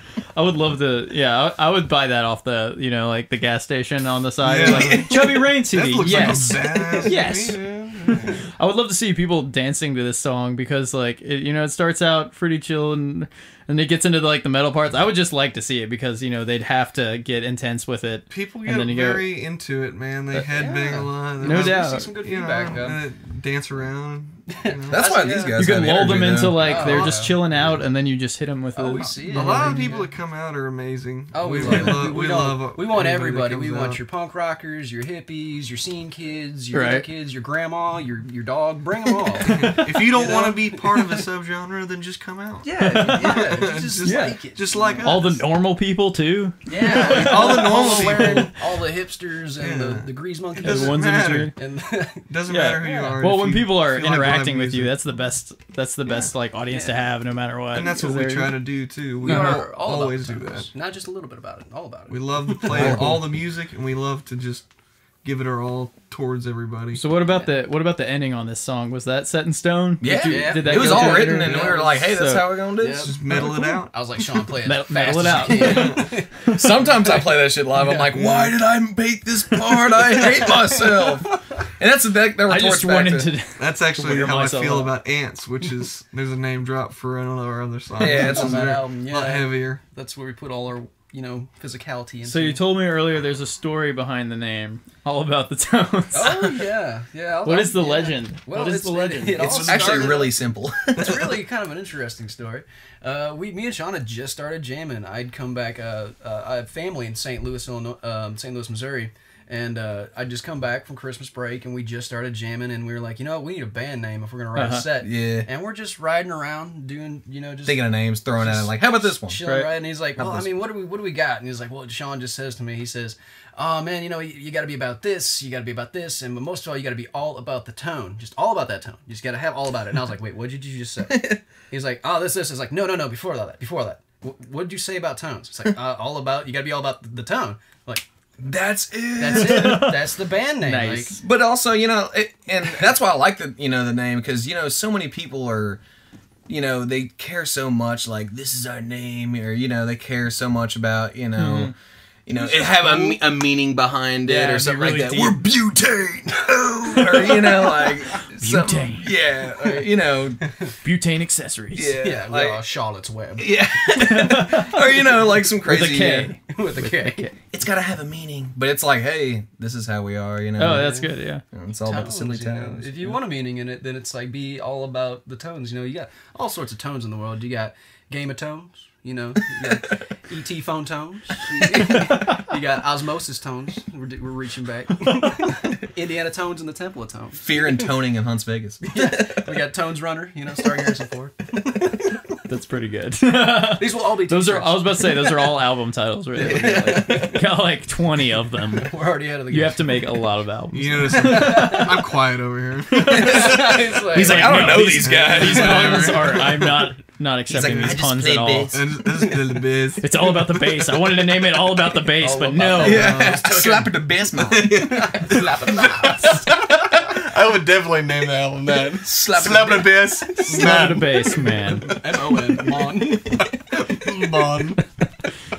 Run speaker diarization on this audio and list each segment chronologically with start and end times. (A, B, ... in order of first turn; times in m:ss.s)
0:00.3-0:19.2 A
0:04.4-0:07.6 B
0:06.0-0:08.5 C
0:18.3-0:25.1 B
0:20.5-0:23.0 C
0:21.4-0:22.1 A
0:24.5-0:25.6 C
0:24.9-0:27.1 D
0:25.6-0:29.9 A
0:26.6-0:27.4 C
0:26.8-0:27.1 B
0:28.7-0:30.1 C
0:29.3-0:34.0 B
0:31.3-0:41.2 C
0:31.6-0:32.0 A
0:36.7-0:37.1 A
0:39.4-0:40.1 A
0:39.4-0:45.4 B
0:42.6-0:45.2 C
0:42.8-0:44.4 A
0:45.0-0:48.5 A
0:46.7-0:53.2 C
0:46.9-0:48.6 B
0:49.6-0:51.5 B
0:50.6-0:51.5 A
0:52.3-0:54.9 B
0:52.5-0:58.6 A
0:56.1-0:57.0 C
0:57.7-1:00.7 B
0:59.2-1:03.1 C
0:59.2-0:59.6 A
1:02.1-1:04.7 B
1:02.7-1:03.2 D
1:05.2-1:07.0 B
1:06.9-1:12.6 A
1:10.0-1:13.1 D
1:10.2-1:12.0 C
1:12.8-1:16.4 C
1:13.0-1:13.9 B
1:14.7-1:16.7 A
1:15.6-1:16.0 B
1:16.5-1:23.3 D
1:17.8-1:18.6 B
1:20.1-1:21.6 C
1:22.5-1:24.9 A
1:23.6-1:29.8 B
1:28.0-1:28.8 D
1:28.0-1:32.6 C
1:32.2-1:36.7 A
1:36.1-1:40.4 C
1:37.4-1:39.7 A
1:39.4-1:41.3 D
1:39.5-1:40.3 B
1:40.9-2:18.1 C
1:54.6-1:54.8 A
1:55.0-1:55.5 D
1:57.6-1:59.4 D
2:00.2-2:00.5 D
2:11.1-2:11.4 D
2:18.4-2:19.9 D
2:19.2-2:21.2 C
2:19.3-2:20.1 A
2:20.6-2:21.2 A
2:21.2-2:25.8 D
2:26.5-2:31.7 D
2:31.4-2:31.7 A
2:32.3-2:40.5 D
2:32.3-2:33.2 C
2:34.2-2:35.4 A
2:36.9-2:39.1 A
2:40.8-2:42.0 A
2:41.7-2:42.6 D
2:42.0-2:43.6 C
2:43.4-2:46.3 D
2:43.9-2:47.3 A
2:46.5-2:47.3 C
2:47.5-2:53.2 D
2:50.6-2:51.4 A
2:50.7-2:51.1 C
2:51.8-3:07.9 C
3:07.4-3:09.5 D
3:08.8-3:12.1 C
3:12.5-3:18.9 A
3:13.7-3:15.1 C
3:16.4-3:17.5 C
3:16.4-3:17.2 D
3:18.7-3:20.0 C
3:19.5-3:22.1 A
3:20.7-3:23.8 B
3:21.1-3:21.9 C
3:22.9-3:28.8 A
3:23.1-3:25.1 C
3:23.1-3:26.4 D
3:25.0-3:26.9 B
3:27.5-3:28.9 D
3:27.6-3:28.0 B
3:28.7-3:31.0 B
3:30.0-3:33.3 A
3:32.2-3:36.5 C
3:32.8-3:35.4 D
3:34.6-3:44.8 B
3:39.0-3:40.9 C
3:40.5-3:42.0 A
3:41.5-3:43.5 C
3:44.0-3:44.6 C